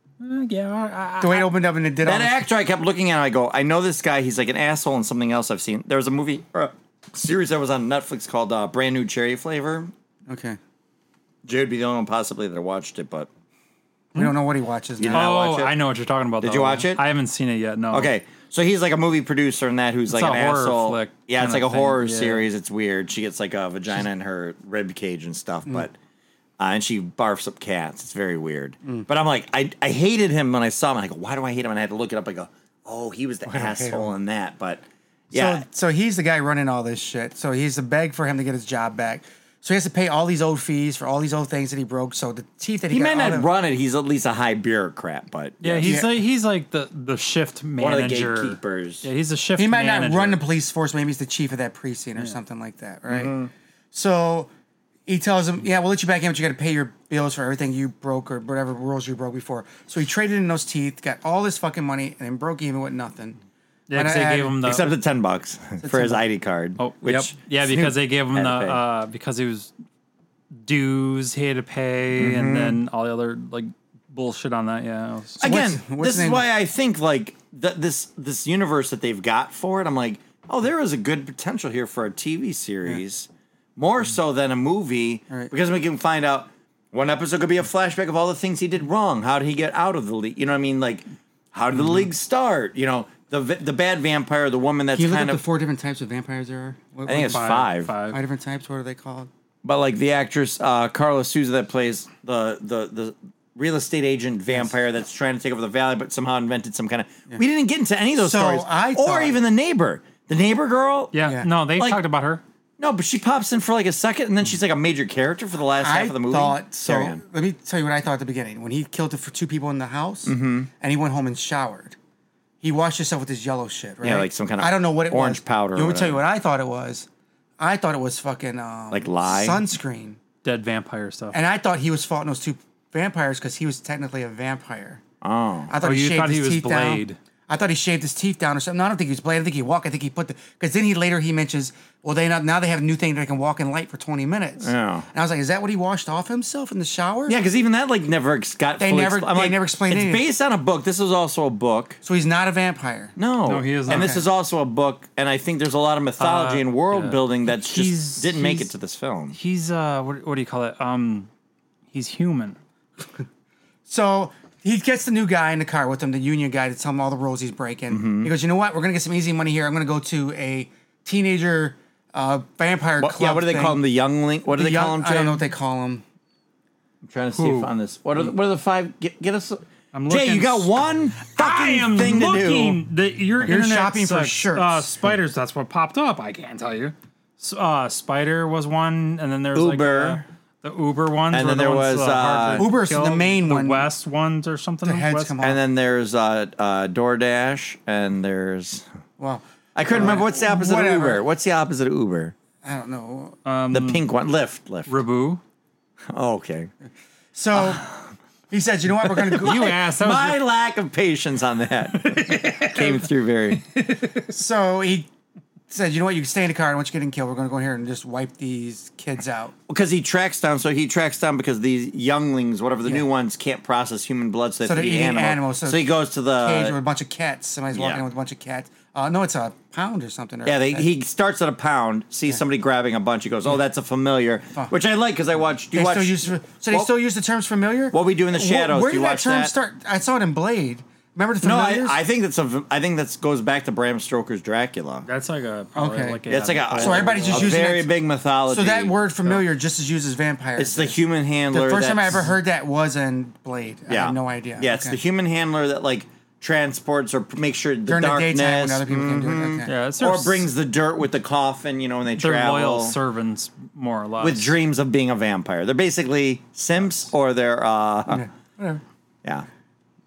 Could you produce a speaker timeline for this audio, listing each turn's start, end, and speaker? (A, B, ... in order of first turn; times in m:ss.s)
0:00.2-0:01.5 A
0:01.2-0:02.4 B
0:02.0-0:09.9 C
0:10.3-0:10.6 B
0:11.4-0:13.3 C
0:14.1-0:15.3 B
0:15.0-0:15.7 C
0:15.1-0:18.1 A
0:16.4-0:17.0 C
0:17.9-0:25.9 C
0:20.1-0:22.5 A
0:26.6-0:35.6 C
0:33.5-0:34.1 B
0:35.3-0:43.5 B
0:42.9-0:46.0 C
0:45.6-0:50.4 A
0:45.8-0:46.2 B
0:47.8-0:49.0 C
0:49.6-0:53.4 B
0:53.1-0:53.5 C
0:53.9-0:54.5 B
0:55.0-1:03.4 B
1:03.9-1:04.9 A
1:03.9-1:04.6 B
1:04.6-1:08.8 C
1:05.8-1:06.2 B
1:06.8-1:09.7 A
1:10.6-1:15.4 A
1:12.2-1:12.8 C
1:15.4-1:16.4 B
1:15.4-1:35.4 C
1:34.9-1:37.5 B
1:37.0-1:37.9 C
1:37.1-1:38.2 A
1:38.1-1:39.3 B
1:39.6-1:51.1 C
1:48.2-1:49.4 B
1:51.1-1:52.4 A
1:51.2-1:51.5 B
1:51.8-1:52.0 C
1:52.8-1:57.2 C
1:55.8-2:02.0 B
2:00.2-2:00.7 C
2:02.6-2:07.1 B
2:04.0-2:06.2 C
2:07.6-2:10.2 B
2:08.9-2:09.6 C
2:10.4-2:11.4 A
2:11.3-2:15.0 B
2:15.2-2:15.7 C
2:15.7-2:27.4 B
2:15.8-2:17.2 A
2:24.6-2:25.1 C
2:27.3-2:32.0 C
2:28.8-2:30.2 B
2:32.0-2:33.1 B
2:33.2-2:39.4 C
2:33.4-2:34.2 A
2:33.9-2:34.2 B
2:36.2-2:38.7 A
2:39.3-2:41.3 A
2:41.9-2:42.6 A
2:43.8-2:53.8 B
2:47.9-2:48.3 C
2:53.0-2:55.4 C
2:54.5-2:56.0 B
2:57.0-3:02.8 C
2:57.4-2:57.7 B
2:59.9-3:00.7 A
3:01.2-3:15.3 A
3:03.4-3:05.0 B
3:09.5-3:10.2 C
3:11.3-3:12.7 C
3:12.6-3:13.9 B
3:14.8-3:15.6 B
3:15.4-3:18.8 C
3:19.2-3:21.2 B
3:19.7-3:22.3 C
3:19.9-3:20.2 A
3:22.6-3:23.4 B
3:23.4-3:24.0 A
3:23.7-3:25.0 C
3:24.9-3:25.4 A
3:26.1-3:26.7 C
3:27.3-3:27.9 B
3:27.5-3:28.0 C
3:28.5-3:29.8 B
3:29.1-3:33.6 C
3:29.4-3:30.4 A
3:31.9-3:34.3 A
3:34.3-3:35.1 B
3:35.7-3:39.5 B
3:39.7-3:46.8 C
3:44.6-3:50.9 B
3:47.7-3:48.0 C
3:50.4-3:56.9 C
3:55.7-4:02.0 B
3:57.9-3:59.5 C
4:01.4-4:05.0 C
4:05.0-4:07.5 A
4:05.7-4:07.9 B
4:06.3-4:09.0 C
4:08.5-4:11.0 B
4:10.6-4:12.3 C
4:11.5-4:15.0 B
4:13.9-4:23.0 C
4:17.9-4:19.7 B
4:19.6-4:20.5 A
4:22.2-4:24.5 A
4:24.2-4:28.2 C
4:28.1-4:28.8 B